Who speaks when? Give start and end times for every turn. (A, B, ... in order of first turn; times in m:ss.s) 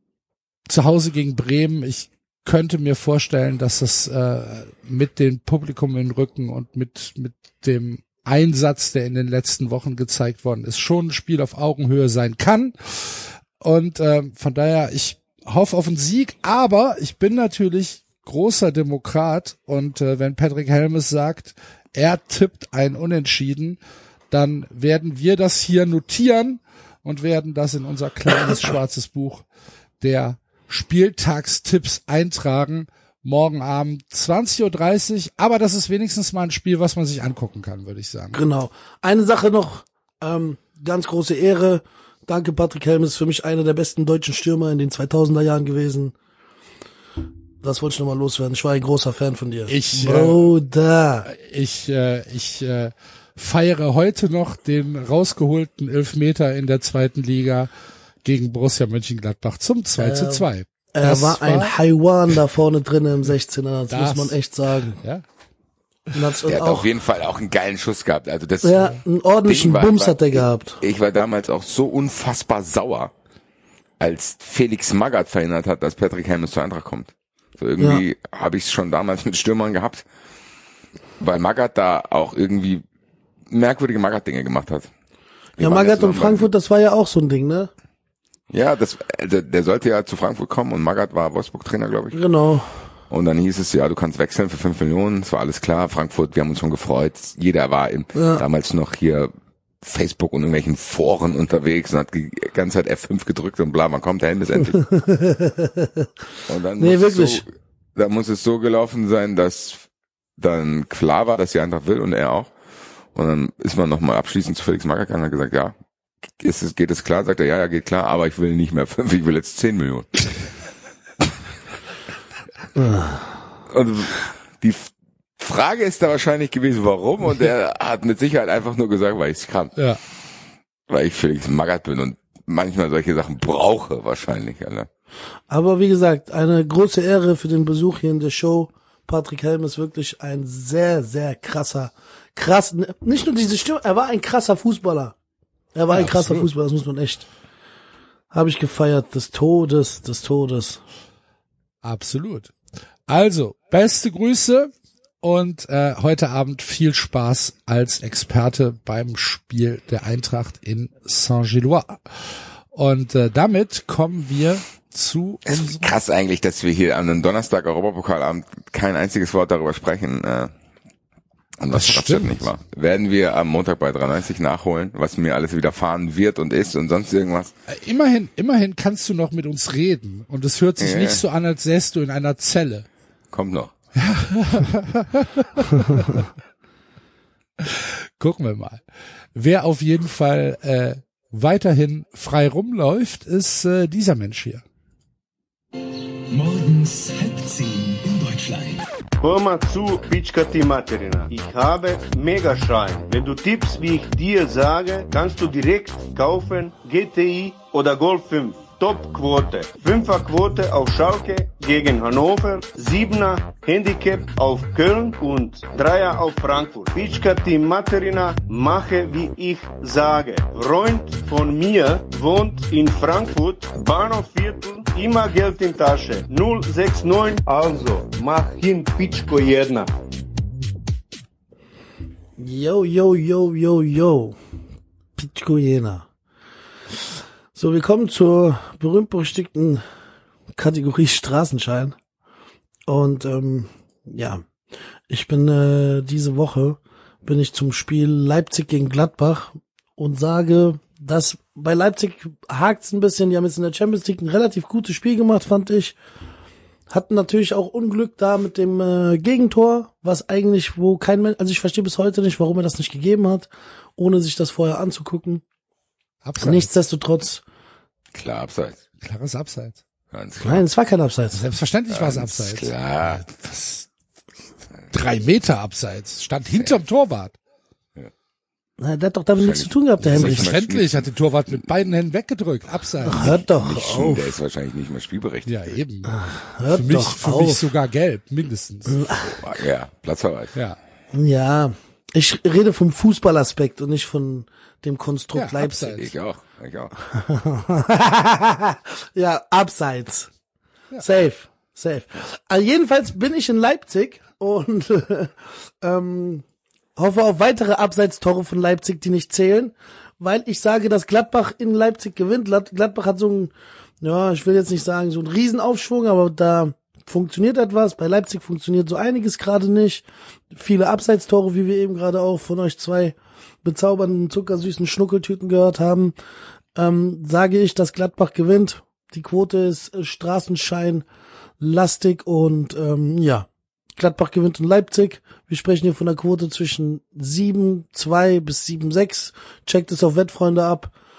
0:00.7-0:23.8 A
0:24.3-0:29.4 A
0:30.0-0:38.4 A
0:38.3-0:46.1 B
0:47.6-0:51.3 B
0:49.7-0:50.4 A
0:51.3-0:57.7 A
0:58.2-1:01.7 A
1:00.0-1:05.0 B
1:03.9-1:04.4 A
1:06.1-1:06.9 B
1:06.4-1:13.1 C
1:08.6-1:10.8 B
1:14.0-1:20.0 C
1:21.2-1:22.8 C
1:23.5-1:24.9 C
1:25.6-1:26.5 C
1:25.6-1:27.7 B
1:28.5-1:32.2 C
1:32.1-1:32.7 B
1:33.1-1:39.3 C
1:38.1-1:38.4 B
1:39.8-1:44.8 C
1:44.8-1:46.1 B
1:46.5-1:49.9 C
1:46.8-1:47.4 B
1:50.4-1:52.5 C
1:53.1-1:55.7 C
1:56.4-2:00.1 C
2:02.8-2:03.3 B
2:03.7-2:09.7 C
2:10.9-2:14.9 C
2:15.5-2:25.1 B
2:25.7-2:27.2 B
2:25.9-2:26.5 A
2:28.3-2:30.8 B
2:31.8-2:32.5 A
2:33.1-2:45.9 A
2:45.4-2:50.5 C
2:51.6-2:57.5 C
2:51.7-2:52.4 A
2:57.7-3:02.9 A
3:00.8-3:01.2 C
3:03.3-3:03.7 C
3:03.9-3:06.2 A
3:07.6-3:08.8 A
3:09.3-3:14.6 A
3:16.3-3:18.9 D
3:19.2-3:49.9 E
3:52.4-3:54.4 B
3:55.2-3:56.0 B
3:57.5-3:59.8 B
4:00.6-4:02.0 B
4:02.9-4:04.4 B
4:05.1-4:16.0 B
4:16.9-4:25.4 B
4:26.2-4:26.7 A
4:26.4-4:27.4 B
4:28.1-4:28.8 C
4:29.0-4:29.8 A
4:30.1-4:30.6 C
4:30.4-4:31.4 B
4:31.3-4:33.9 A
4:31.9-4:33.2 C
4:34.9-4:37.4 A
4:38.8-4:40.5 B
4:39.4-4:41.6 C
4:40.1-4:43.4 A
4:43.0-4:44.3 B
4:43.0-4:45.6 C
4:45.4-4:49.0 A
4:46.1-4:47.6 B
4:48.9-4:49.4 B
4:49.1-4:50.5 C
4:51.1-4:56.0 B
4:55.3-4:56.1 A
4:55.8-4:56.9 C
4:57.2-5:00.3 B
5:01.0-5:06.4 B
5:07.0-5:26.1 B
5:26.7-5:31.0 B
5:31.6-5:40.9 B